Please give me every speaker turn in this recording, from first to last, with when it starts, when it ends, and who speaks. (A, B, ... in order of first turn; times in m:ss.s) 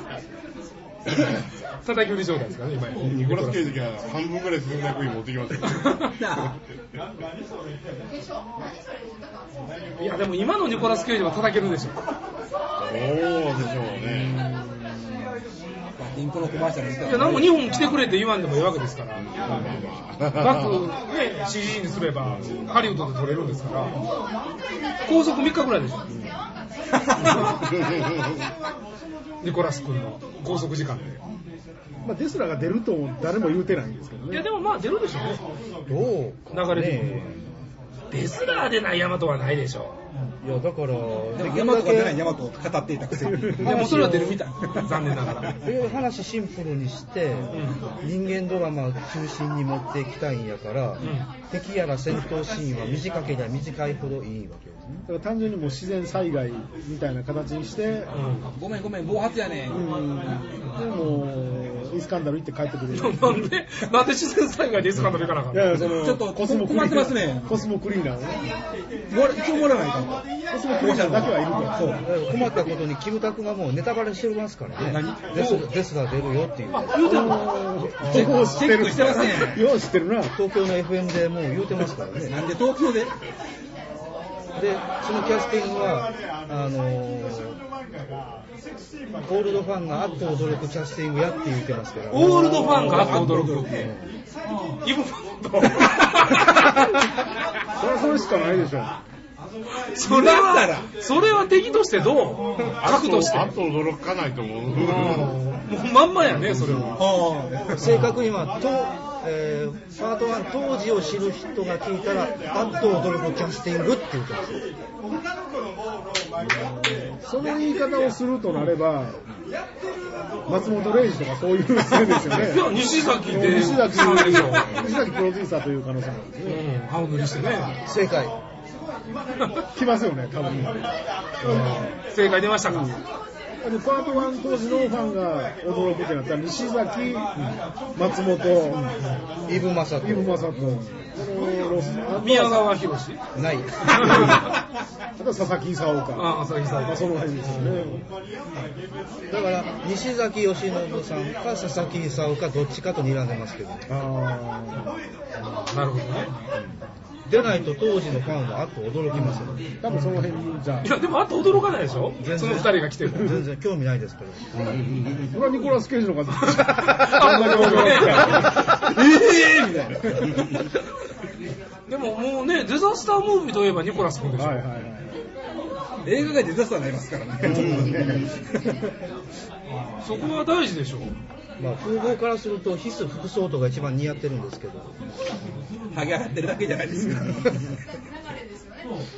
0:01.8-0:03.7 A
0:03.0-0:06.0 B
0:05.8-0:06.1 A
0:06.2-0:06.6 C
0:10.0-0:12.1 A
0:12.8-0:14.5 B
0:16.0-0:17.8 C
0:17.0-0:19.3 A
0:19.2-0:20.8 B
0:20.4-0:24.0 A
0:25.0-0:26.0 A
0:27.2-0:27.5 A
0:27.7-0:28.2 B
0:29.4-0:31.2 A
0:32.0-0:34.5 D
0:34.3-0:35.4 A
0:35.9-0:37.4 E
0:36.5-0:37.4 A
0:38.1-0:40.0 A
0:40.4-0:42.2 E
0:41.4-0:45.5 C
0:43.5-0:44.4 E
0:43.6-0:45.6 A
0:45.5-0:55.1 E
0:47.3-0:47.8 C
0:47.5-0:47.8 A
0:51.0-0:51.3 A
0:55.1-0:58.2 D
0:58.1-0:58.5 A
0:58.6-1:00.0 C
0:59.7-1:03.4 D
1:02.9-1:06.1 A
1:05.5-1:08.5 D
1:05.7-1:07.6 C
1:09.1-1:12.1 C
1:10.5-1:12.0 D
1:12.0-1:17.3 E
1:14.8-1:15.4 C
1:15.3-1:15.7 A
1:16.7-1:18.6 A
1:17.0-1:20.4 D
1:18.0-1:19.6 C
1:20.2-1:22.4 E
1:22.2-1:23.1 C
1:24.6-1:27.6 E
1:29.2-1:34.1 E
1:32.1-1:33.7 A
1:32.2-1:33.0 D
1:32.7-1:33.9 C
1:34.8-1:37.0 A
1:37.8-1:39.0 D
1:39.9-1:43.6 A
1:40.0-1:40.9 C
1:42.6-1:45.4 B
1:44.7-1:47.0 A
1:46.4-1:46.9 B
1:47.0-1:48.2 C
1:47.7-1:54.7 E
1:57.2-1:59.2 D
2:00.5-2:02.8 D
2:02.1-2:04.8 A
2:03.3-2:06.6 D
2:06.4-2:07.8 A
2:07.8-2:08.4 E
2:09.7-2:10.8 D
2:11.4-2:13.0 A
2:11.4-2:11.9 D
2:12.7-2:13.0 D
2:13.6-2:17.4 D
2:18.0-2:18.9 D
2:19.5-2:20.6 E
2:20.0-2:22.8 D
2:20.6-2:21.0 C
2:22.2-2:23.2 A
2:23.4-2:24.4 E
2:23.9-2:24.4 A
2:25.2-2:28.0 D
2:26.2-2:28.0 A
2:29.3-2:33.9 E
2:33.9-2:34.9 D
2:35.4-2:36.3 A
2:36.5-2:39.7 E
2:39.2-2:40.9 D
2:40.8-2:43.3 A
2:42.2-2:44.4 E
2:44.5-2:45.3 B
2:45.3-2:48.7 D
2:46.4-2:48.7 A
2:47.9-2:50.6 C
2:51.9-2:54.6 A
2:54.4-2:55.2 D
2:56.0-2:58.9 C
2:57.4-2:58.3 D
2:57.6-2:58.0 B
3:00.0-3:01.1 A
3:01.6-3:05.0 E
3:05.9-3:07.7 C